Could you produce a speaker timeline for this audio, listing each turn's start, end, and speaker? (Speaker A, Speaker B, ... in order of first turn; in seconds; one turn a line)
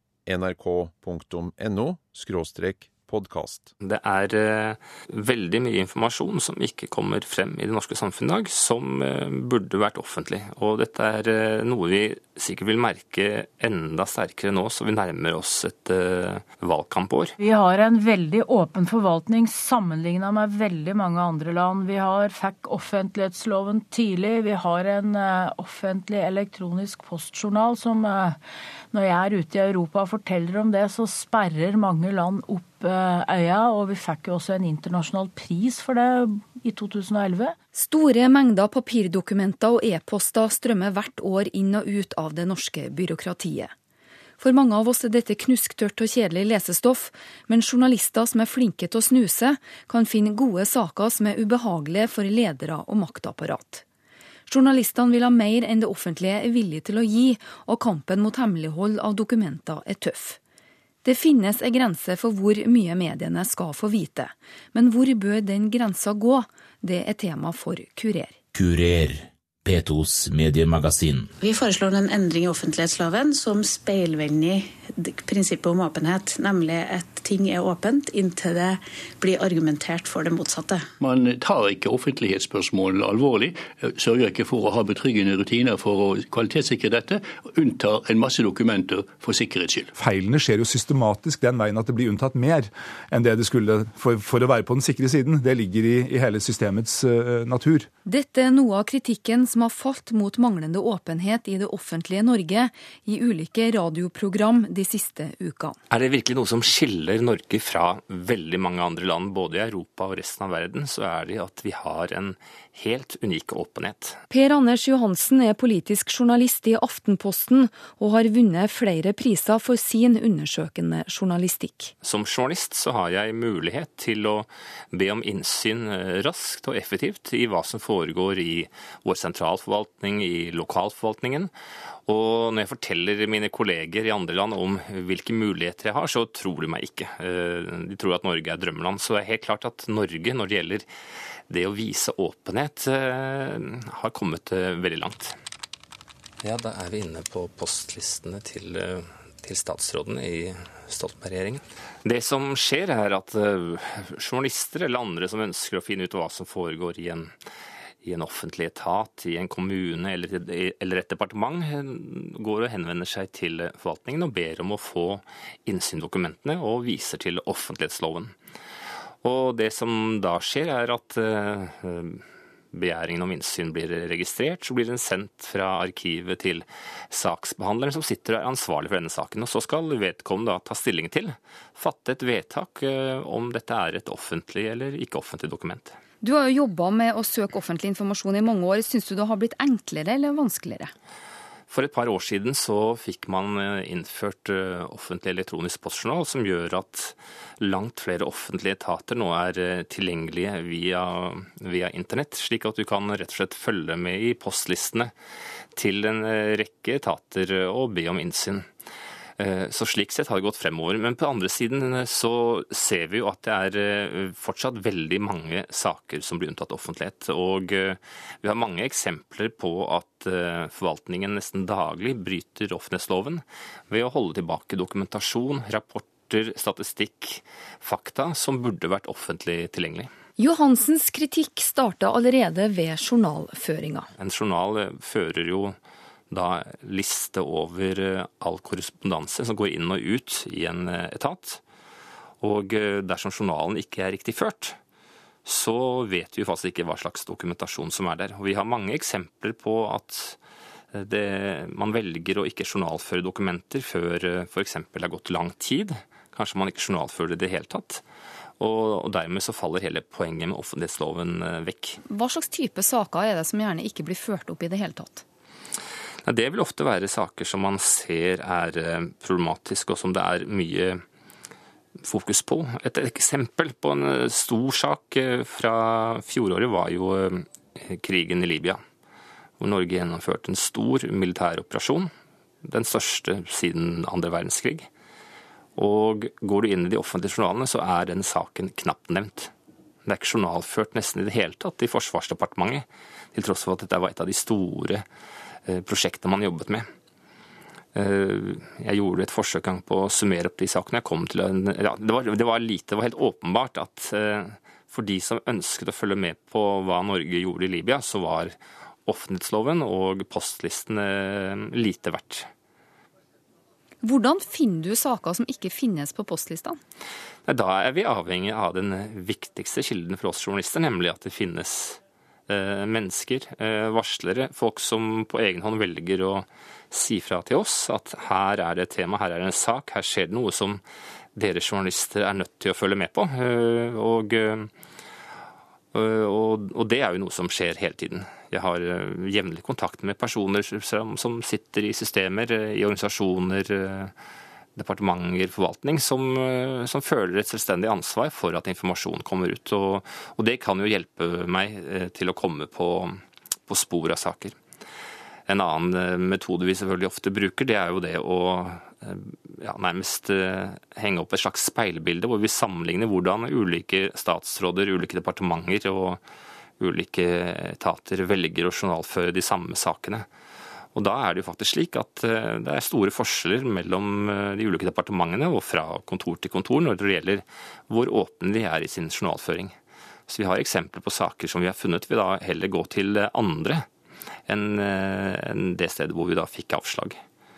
Speaker A: 0.3-3.7
Speaker B: 3.8-17.4
Speaker C: 17.4-28.4
Speaker C: 28.9-37.6
Speaker D: 37.7-43.7
Speaker D: 44.4-53.8
Speaker D: 54.5-60.4
Speaker D: 61.0-68.3
Speaker E: 68.5-71.3
Speaker F: 71.4-80.9
Speaker G: 81.0-89.9
Speaker H: 90.0-97.9
Speaker D: 98.1-105.8
Speaker B: 105.9-114.2
Speaker D: 114.3-121.9
Speaker B: 122.0-131.5
Speaker B: 132.1-140.9
Speaker B: 141.5-145.4
Speaker B: 146.4-157.3
Speaker B: 158.0-168.3
Speaker B: 169.2-186.0
Speaker D: 186.2-190.9
Speaker B: 191.7-205.1
Speaker B: 205.8-208.7
Speaker B: 209.4-230.1
Speaker D: 230.4-234.1
Speaker B: 234.2-235.8
Speaker B: 236.3-241.6
Speaker B: 242.4-244.8
Speaker B: 245.4-250.4
Speaker B: 250.9-258.0
Speaker B: 258.6-262.0
Speaker D: 262.1-265.2
Speaker B: 266.2-271.0
Speaker B: 272.1-278.8
Speaker B: 279.6-282.1
Speaker B: 282.6-284.9
Speaker B: 285.8-289.5
Speaker B: 290.1-295.0
Speaker B: 295.7-296.9
Speaker B: 297.9-308.6
Speaker B: 309.1-312.5
Speaker D: 314.0-316.8
Speaker B: 317.5-330.8
Speaker B: 331.4-334.7
Speaker B: 335.9-344.1
Speaker B: 344.8-354.6
Speaker B: 355.5-366.2
Speaker B: 366.8-370.3
Speaker B: 370.9-379.7
Speaker B: 380.3-383.9
Speaker B: 384.5-387.2